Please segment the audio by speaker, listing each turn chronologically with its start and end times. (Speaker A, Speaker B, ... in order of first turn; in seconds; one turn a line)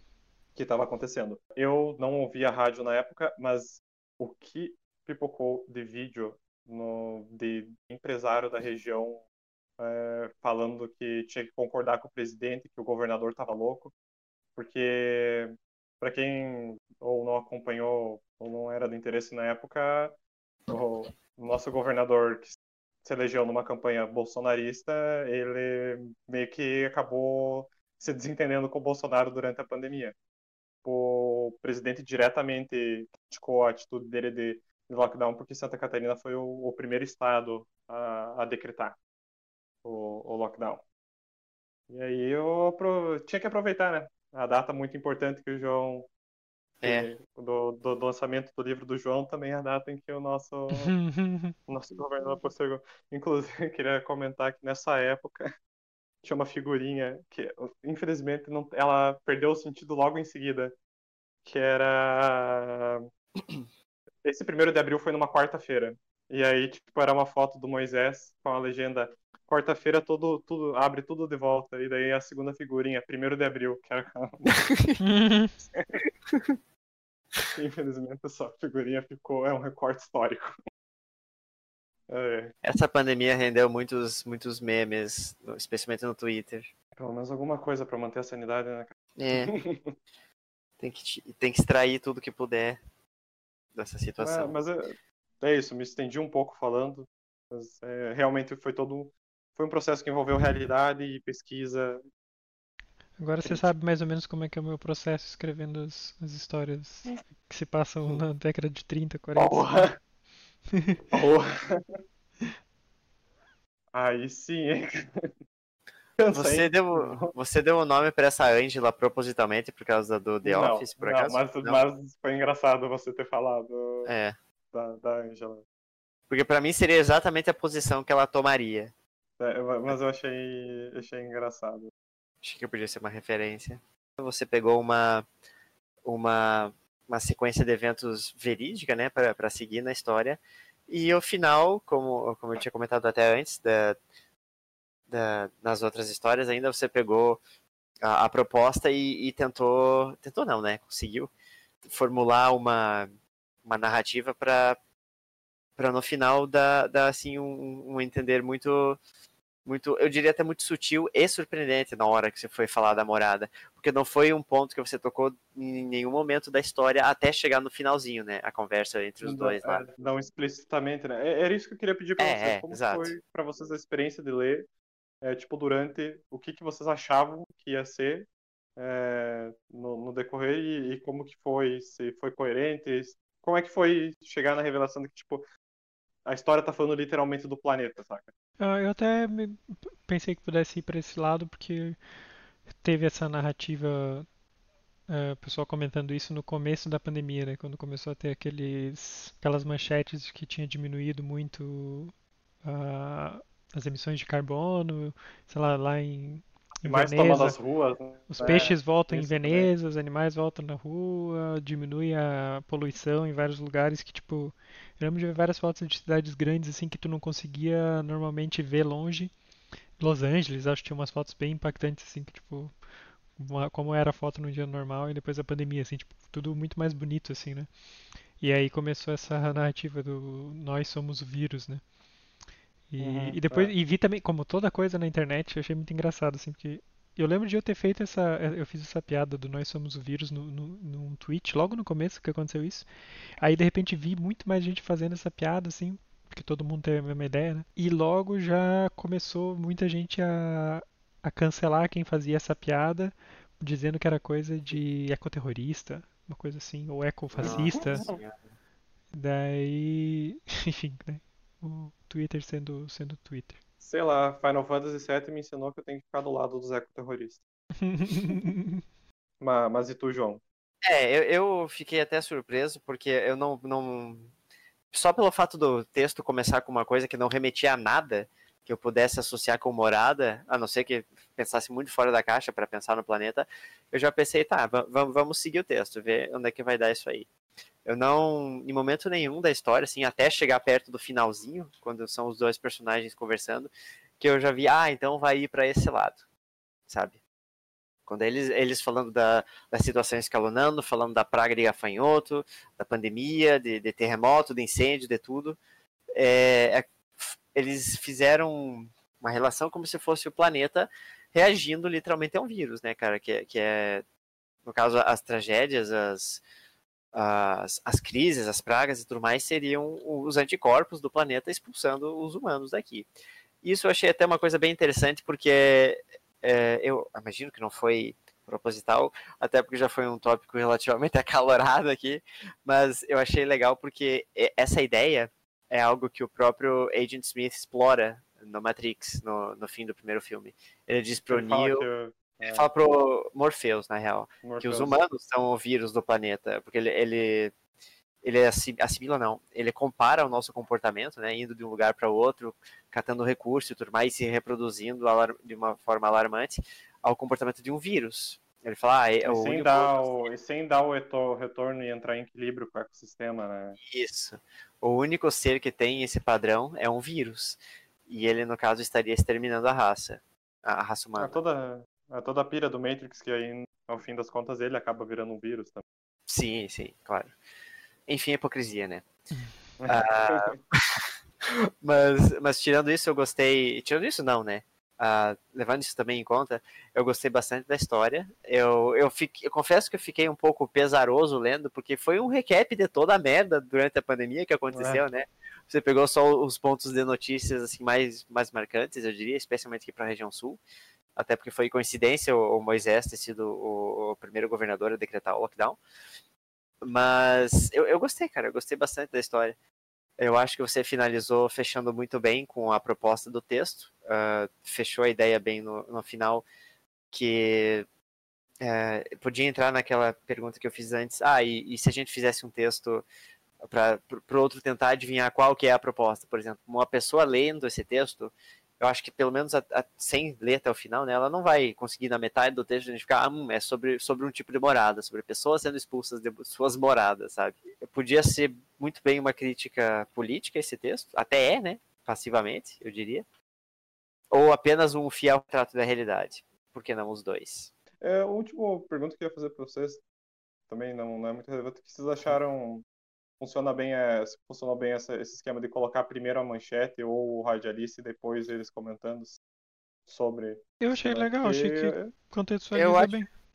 Speaker A: 0.6-9.2
Speaker A: 9.8-13.9
Speaker A: 14.6-20.1
Speaker A: 20.7-30.1
Speaker A: 30.8-39.0
Speaker A: 39.8-40.8
Speaker A: 41.9-46.1
Speaker B: 46.8-47.1
Speaker A: 46.8-50.9
Speaker C: 50.7-51.5
Speaker A: 51.7-55.5
Speaker A: 56.2-60.8
Speaker A: 61.4-63.0
Speaker A: 64.2-74.5
Speaker B: 74.7-75.0
Speaker C: 75.0-75.5
Speaker A: 75.7-76.0
Speaker A: 77.5-80.5
Speaker A: 82.1-82.5
Speaker B: 82.6-86.7
Speaker A: 87.0-89.9
Speaker B: 89.2-89.5
Speaker B: 90.8-92.8
Speaker B: 93.7-94.6
Speaker A: 94.2-102.0
Speaker C: 103.2-109.9
Speaker A: 103.4-103.7
Speaker A: 109.3-109.9
Speaker C: 110.7-111.0
Speaker A: 111.1-111.8
Speaker A: 113.9-115.3
Speaker A: 116.2-117.3
Speaker B: 116.3-121.8
Speaker A: 120.4-124.1
Speaker B: 124.0-124.4
Speaker A: 124.7-125.6
Speaker B: 126.3-128.9
Speaker A: 129.4-131.9
Speaker B: 132.4-135.3
Speaker B: 136.1-144.0
Speaker B: 145.1-147.4
Speaker B: 148.0-151.3
Speaker B: 151.8-153.1
Speaker B: 153.6-154.8
Speaker B: 155.8-159.0
Speaker B: 159.7-169.9
Speaker A: 169.2-174.7
Speaker B: 172.2-173.2
Speaker A: 175.2-185.4
Speaker A: 186.3-188.3
Speaker C: 188.6-192.0
Speaker C: 192.7-194.3
Speaker C: 195.1-202.1
Speaker C: 202.6-207.6
Speaker A: 206.8-209.7
Speaker C: 208.3-219.3
Speaker C: 220.0-227.7
Speaker C: 228.4-231.8
Speaker C: 232.9-242.9
Speaker A: 233.0-233.7
Speaker C: 243.4-258.1
Speaker B: 257.3-258.4
Speaker A: 257.4-258.2
Speaker C: 259.1-263.6
Speaker A: 263.8-267.4
Speaker C: 267.8-268.8
Speaker A: 269.4-270.4
Speaker B: 270.8-274.3
Speaker B: 274.9-287.3
Speaker B: 287.9-296.2
Speaker B: 296.9-297.2
Speaker B: 298.1-305.6
Speaker B: 306.1-314.0
Speaker B: 314.6-316.4
Speaker B: 317.1-323.1
Speaker B: 323.6-341.9
Speaker A: 341.3-342.7
Speaker B: 342.4-347.5
Speaker A: 344.4-345.0
Speaker B: 348.2-360.3
Speaker A: 359.2-363.8
Speaker B: 363.8-371.4
Speaker A: 371.2-375.8
Speaker B: 376.3-377.3
Speaker B: 378.1-379.1
Speaker A: 379.8-380.6
Speaker B: 379.9-400.6
Speaker A: 394.7-395.0
Speaker B: 401.1-405.8
Speaker B: 406.8-409.6
Speaker B: 410.2-416.4
Speaker B: 417.1-417.9
Speaker B: 418.6-423.1
Speaker B: 423.6-443.2
Speaker B: 444.3-447.7
Speaker A: 448.0-450.0
Speaker A: 450.7-452.8
Speaker A: 453.4-459.4
Speaker A: 460.1-462.1
Speaker C: 460.8-463.3
Speaker B: 462.7-463.2